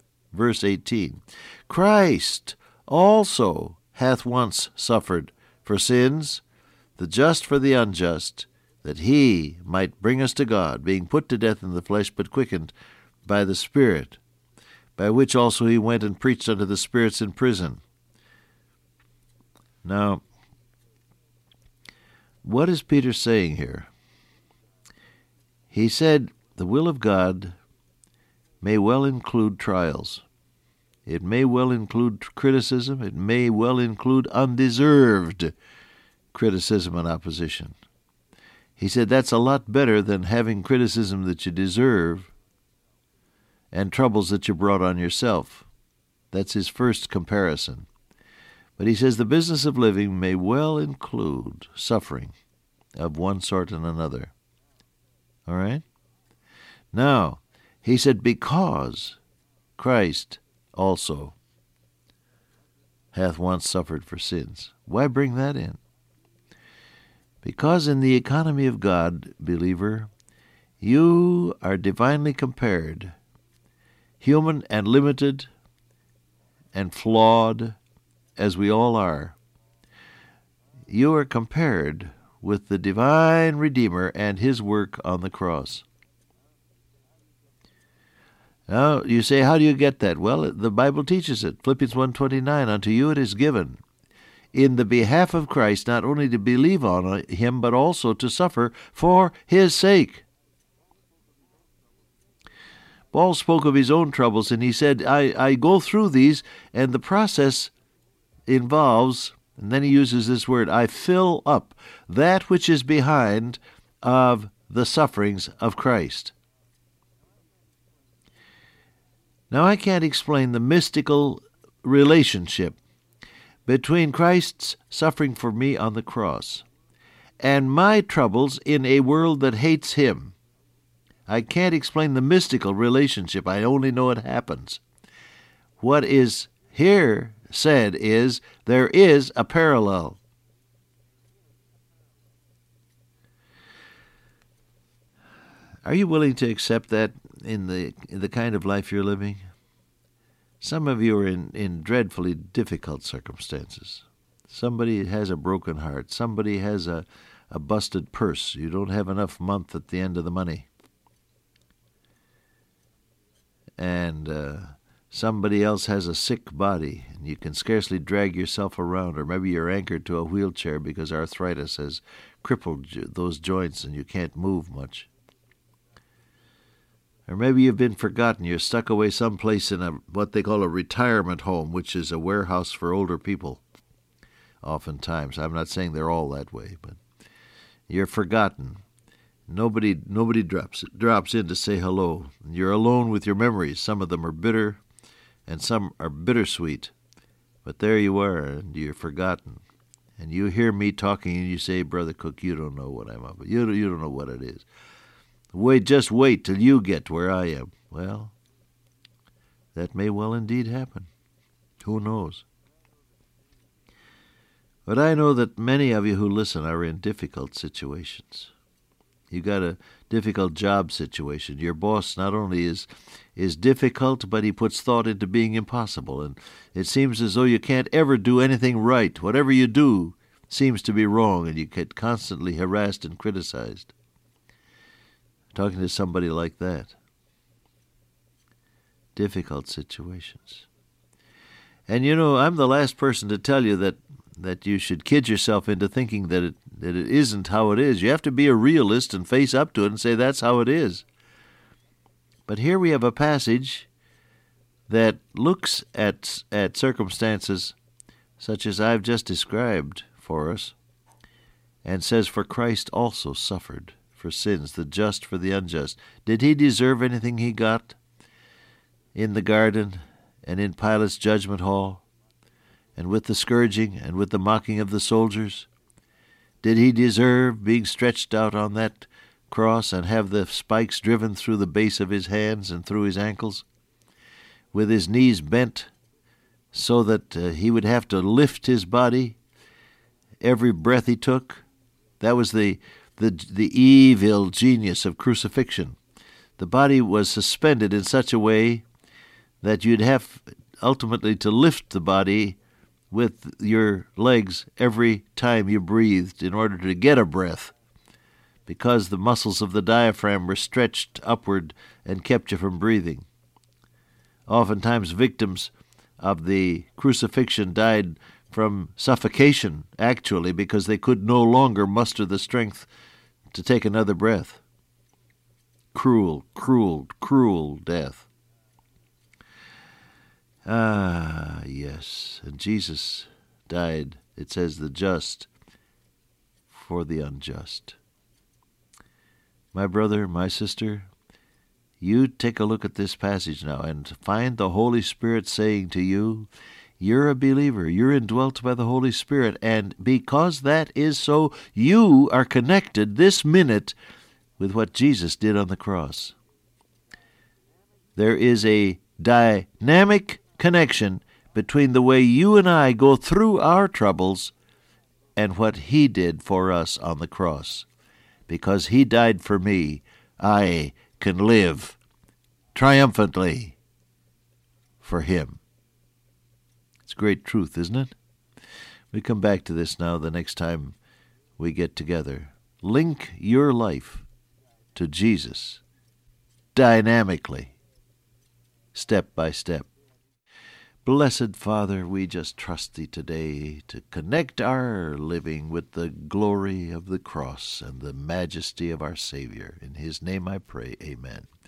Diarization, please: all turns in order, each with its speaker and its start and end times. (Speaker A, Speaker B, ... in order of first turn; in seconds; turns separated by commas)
Speaker A: 0.3-6.4, Speaker A: 7.0-12.7, Speaker A: 13.2-14.2, Speaker A: 15.0-17.8, Speaker A: 19.8-20.2, Speaker A: 22.4-23.9, Speaker A: 25.7-27.6, Speaker A: 28.6-30.2, Speaker A: 31.1-35.5, Speaker A: 36.3-37.8, Speaker A: 38.8-42.3, Speaker A: 43.7-45.7, Speaker A: 46.3-47.9, Speaker A: 48.8-52.4, Speaker A: 53.0-54.3, Speaker A: 55.5-55.8, Speaker A: 56.9-59.2, Speaker A: 59.8-61.4, Speaker A: 63.1-65.8, Speaker A: 67.4-70.1, Speaker A: 70.8-73.2, Speaker A: 74.2-75.5, Speaker A: 76.7-77.8, Speaker A: 78.4-79.4, Speaker A: 80.9-85.8, Speaker A: 88.7-93.8, Speaker A: 94.5-100.2, Speaker A: 103.1-107.7, Speaker A: 108.5-116.3, Speaker A: 119.5-122.8, Speaker A: 123.7-126.6, Speaker A: 127.4-130.4, Speaker A: 131.3-134.8, Speaker A: 135.8-140.2, Speaker A: 145.8-149.4, Speaker A: 150.6-160.7, Speaker A: 163.8-175.1, Speaker A: 177.3-183.6, Speaker A: 184.6-187.0, Speaker A: 187.9-188.8, Speaker A: 189.5-194.8, Speaker A: 195.5-196.9, Speaker A: 197.6-199.6, Speaker A: 200.2-204.7, Speaker A: 205.5-208.3, Speaker A: 209.8-211.1, Speaker A: 211.8-212.4, Speaker A: 214.9-218.5, Speaker A: 219.3-233.9, Speaker A: 235.5-237.0, Speaker A: 239.2-240.7, Speaker A: 241.9-251.1, Speaker A: 252.5-253.9, Speaker A: 254.9-257.8, Speaker A: 258.4-260.8, Speaker A: 261.8-268.0, Speaker A: 269.1-272.0, Speaker A: 273.0-275.7, Speaker A: 276.6-283.6, Speaker A: 284.7-285.9, Speaker A: 286.7-289.4, Speaker A: 290.4-291.6, Speaker A: 292.2-296.0, Speaker A: 296.6-298.9, Speaker A: 299.6-302.6, Speaker A: 303.1-307.7, Speaker A: 308.7-313.3, Speaker A: 314.5-322.9, Speaker A: 323.5-324.6, Speaker A: 325.9-328.3, Speaker A: 330.6-335.5, Speaker A: 336.7-338.0, Speaker A: 339.7-341.1, Speaker A: 342.0-354.0, Speaker A: 354.6-356.4, Speaker A: 358.2-364.5, Speaker A: 365.4-367.9, Speaker A: 368.5-372.0, Speaker A: 372.7-373.8, Speaker A: 375.0-375.6, Speaker A: 377.1-378.1, Speaker A: 379.1-381.0, Speaker A: 381.6-384.3, Speaker A: 384.9-385.8, Speaker A: 386.8-387.8, Speaker A: 388.9-389.9, Speaker A: 391.1-401.5